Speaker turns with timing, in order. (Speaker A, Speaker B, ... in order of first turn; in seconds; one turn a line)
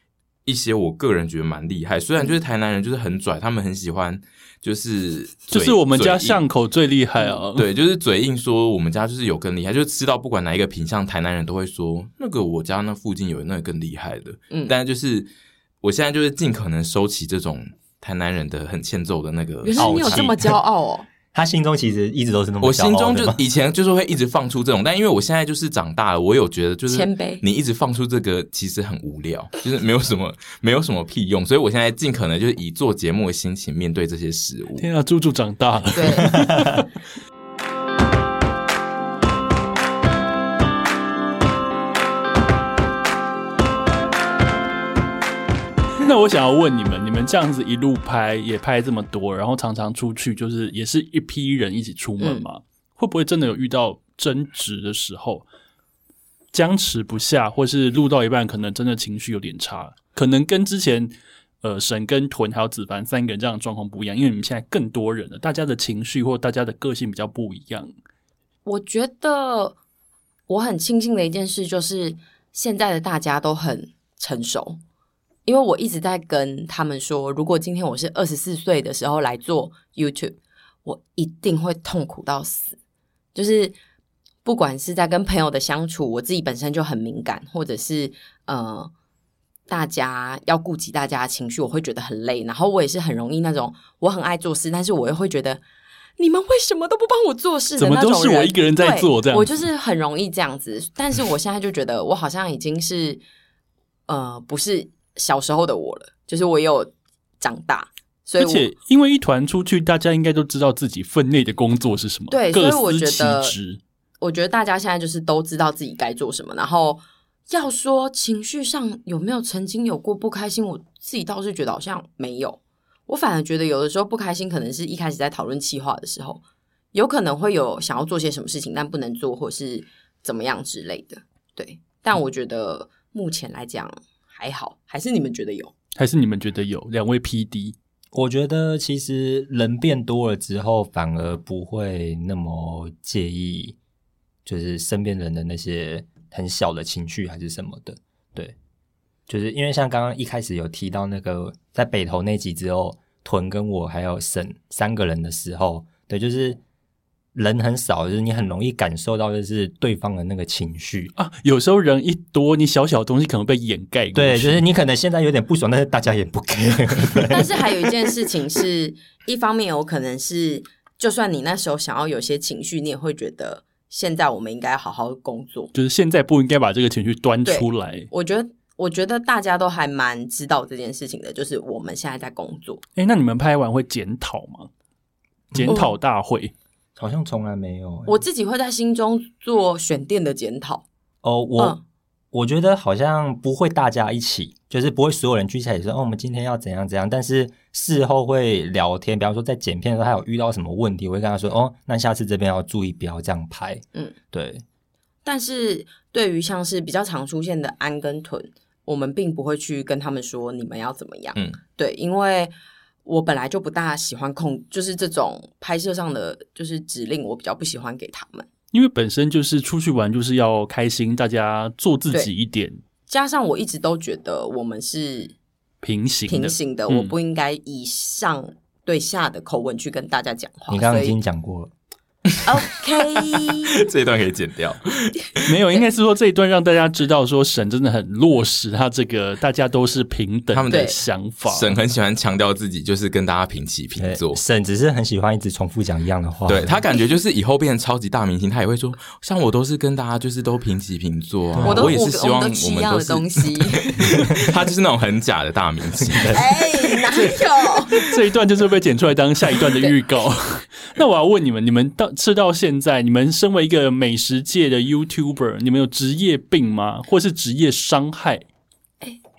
Speaker A: 0.5-6.4
Speaker B: 5.5-7.7
Speaker A: 7.5-15.3
Speaker A: 15.8-20.3
Speaker C: 19.6-21.1
Speaker D: 19.8-20.6
Speaker D: 21.3-23.4
Speaker A: 22.6-34.9
Speaker C: 26.9-27.4
Speaker B: 34.8-36.9
Speaker C: 36.0-36.8
Speaker B: 46.0-55.5
Speaker B: 56.5-67.9
Speaker C: 68.7-69.8
Speaker C: 70.5-74.8
Speaker C: 75.5-82.8
Speaker C: 83.3-83.8
Speaker C: 84.5-88.9
Speaker C: 89.7-95.6
Speaker C: 96.2-103.2
Speaker B: 97.8-99.6
Speaker C: 104.1-108.7
Speaker B: 108.4-113.8
Speaker C: 112.3-113.5
Speaker C: 114.2-126.4
Speaker C: 126.9-135.7
Speaker B: 136.0-137.8
Speaker D: 138.1-143.8
Speaker D: 144.4-148.6
Speaker D: 149.3-156.6
Speaker D: 157.3-161.1
Speaker B: 161.2-164.6
Speaker D: 164.2-167.9
Speaker C: 167.3-175.7
Speaker B: 175.7-178.1
Speaker C: 177.5-182.8
Speaker B: 183.0-184.7
Speaker D: 185.5-185.8
Speaker B: 185.5-186.5
Speaker C: 185.7-185.9
Speaker D: 187.0-188.2
Speaker C: 188.1-190.9
Speaker D: 191.2-191.8
Speaker D: 192.3-204.6
Speaker C: 205.2-212.5
Speaker C: 213.1-218.5
Speaker B: 218.7-222.8
Speaker C: 223.1-225.3
Speaker B: 225.8-227.1
Speaker C: 226.3-231.2
Speaker D: 230.7-231.7
Speaker C: 232.4-233.8
Speaker A: 233.2-235.4
Speaker B: 235.5-241.8
Speaker A: 240.5-240.9
Speaker C: 240.7-241.0
Speaker A: 241.5-244.4
Speaker D: 244.0-246.8
Speaker A: 246.5-256.5
Speaker D: 251.6-252.0
Speaker C: 251.6-254.1
Speaker D: 256.1-256.4
Speaker C: 256.3-258.1
Speaker B: 257.1-268.4